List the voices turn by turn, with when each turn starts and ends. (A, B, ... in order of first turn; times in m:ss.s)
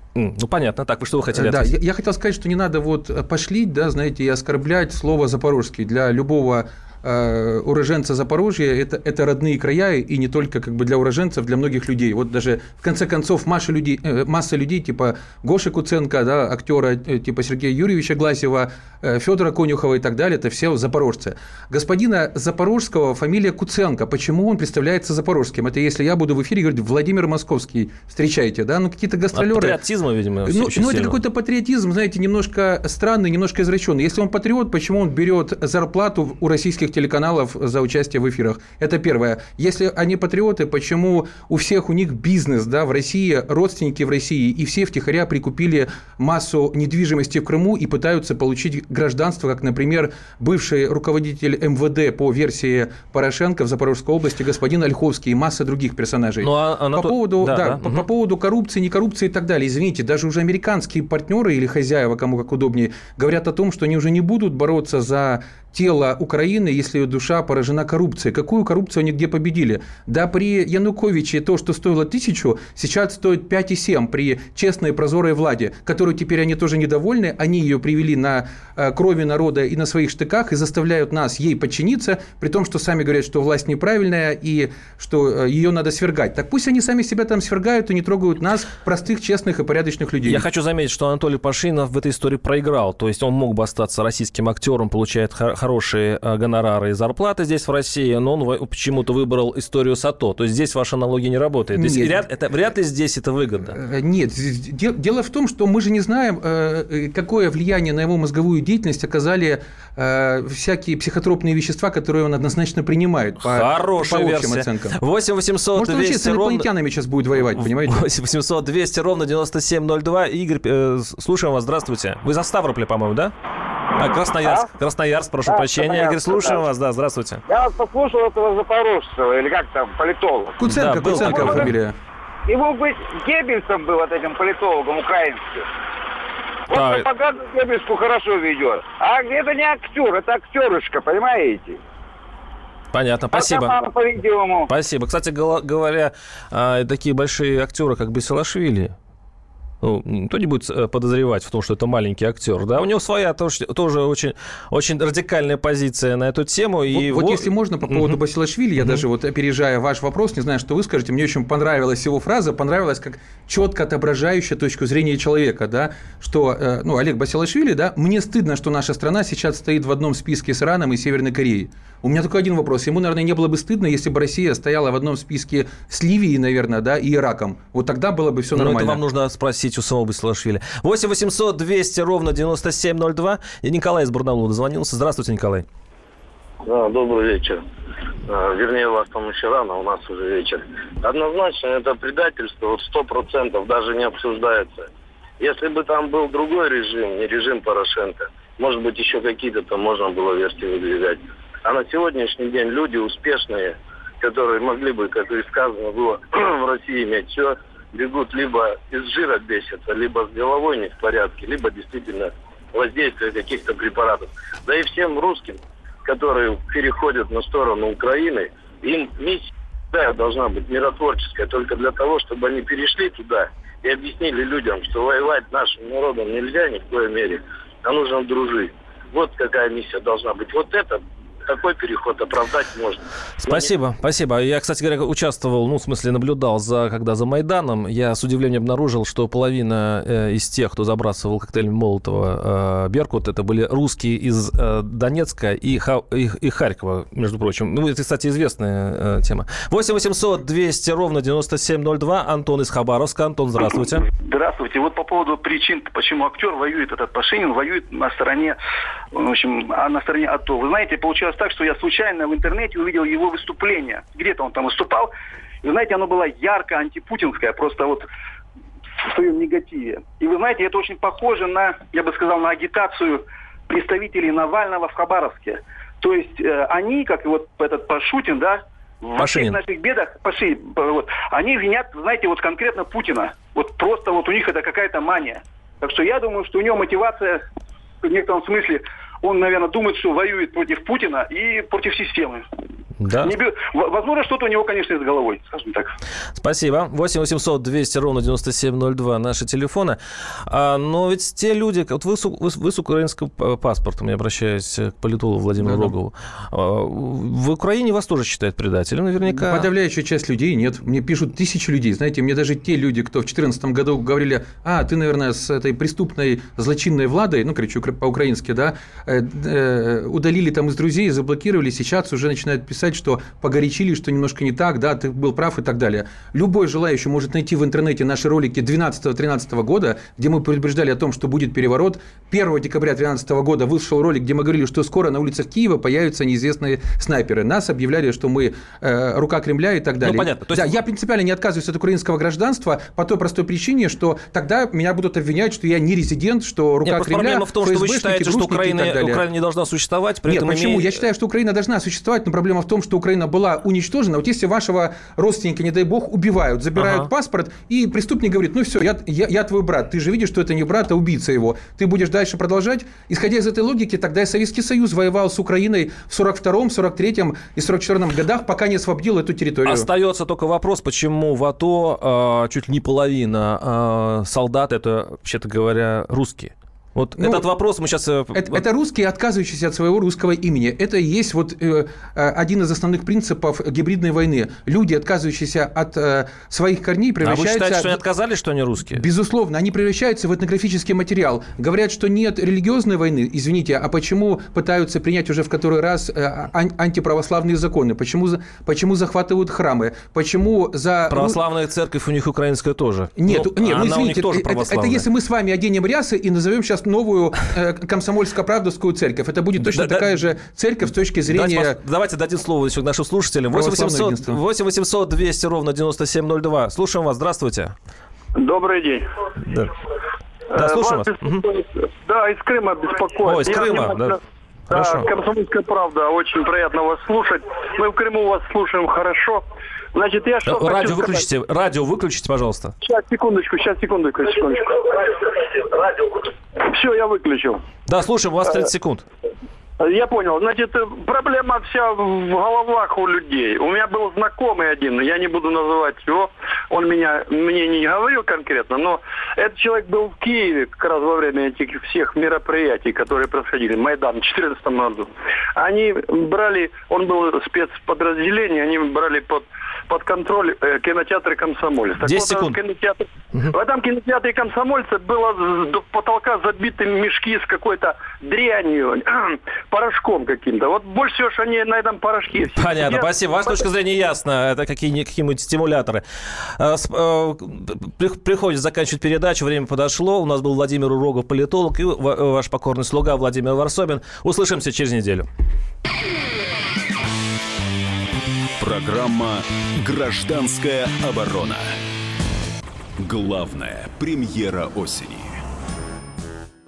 0:00.2-0:01.7 A
0:01.4-0:29.8 B
0:29.3-0:31.2 A
0:30.4-1:30.4 B
0:56.4-0:58.0 A
1:30.2-1:43.8 A
1:41.8-1:42.2 B
1:43.7-1:55.0 B
1:53.4-1:56.7 A
1:55.8-1:58.0 B
1:57.6-2:03.3 A
2:03.9-2:07.4 A
2:04.4-2:04.7 C
2:05.4-2:06.6 C
2:07.5-2:10.5 C
2:10.6-2:12.0 B
2:10.6-2:11.7 A
2:11.1-2:11.6 C
2:12.5-2:15.6 C
2:16.7-2:21.8 C
2:16.7-2:17.0 A
2:22.9-2:23.8 A
2:23.3-2:24.7 C
2:24.7-2:28.9 A
2:29.8-2:38.2 A
2:36.9-2:59.0 B
2:58.6-3:05.6 A
3:06.6-3:07.6 D
3:08.3-3:14.9 D
3:15.4-3:53.7 D
3:53.4-4:14.0 A
4:14.2-4:18.6 E
4:19.1-4:25.1 E
4:25.6-4:28.1 E
4:29.0-4:47.4 E
4:39.2-4:39.6 A
4:48.0-4:52.4 E
4:53.0-4:53.3 A
4:53.2-4:56.0 E
4:56.4-5:09.6 A
5:05.6-5:05.9 B
5:09.2-5:49.2 B
5:40.0-5:40.6 A
5:46.8-5:50.9 A
5:50.2-6:09.9 B
5:56.8-5:57.1 A
6:09.6-6:18.6 A
6:17.2-6:17.4 B
6:18.3-6:28.0 B
6:27.2-6:29.0 A
6:28.9-6:41.4 B
6:41.1-6:45.0 A
6:43.2-6:51.8 B
6:49.6-6:50.1 A
6:51.3-6:57.7 A
6:53.5-6:54.4 B
6:58.4-6:59.0 F
6:59.4-6:59.7 A
7:00.5-7:11.2 F
7:00.5-7:01.5 A
7:03.2-7:04.2 A
7:04.7-7:05.1 A
7:10.4-7:12.7 A
7:12.8-7:17.6 F
7:17.9-7:19.0 A
7:19.8-7:53.6 F
7:42.0-7:42.6 A
7:52.5-7:56.0 A
7:56.6-8:05.3 A
8:08.6-8:11.8 G
8:13.0-8:15.4 G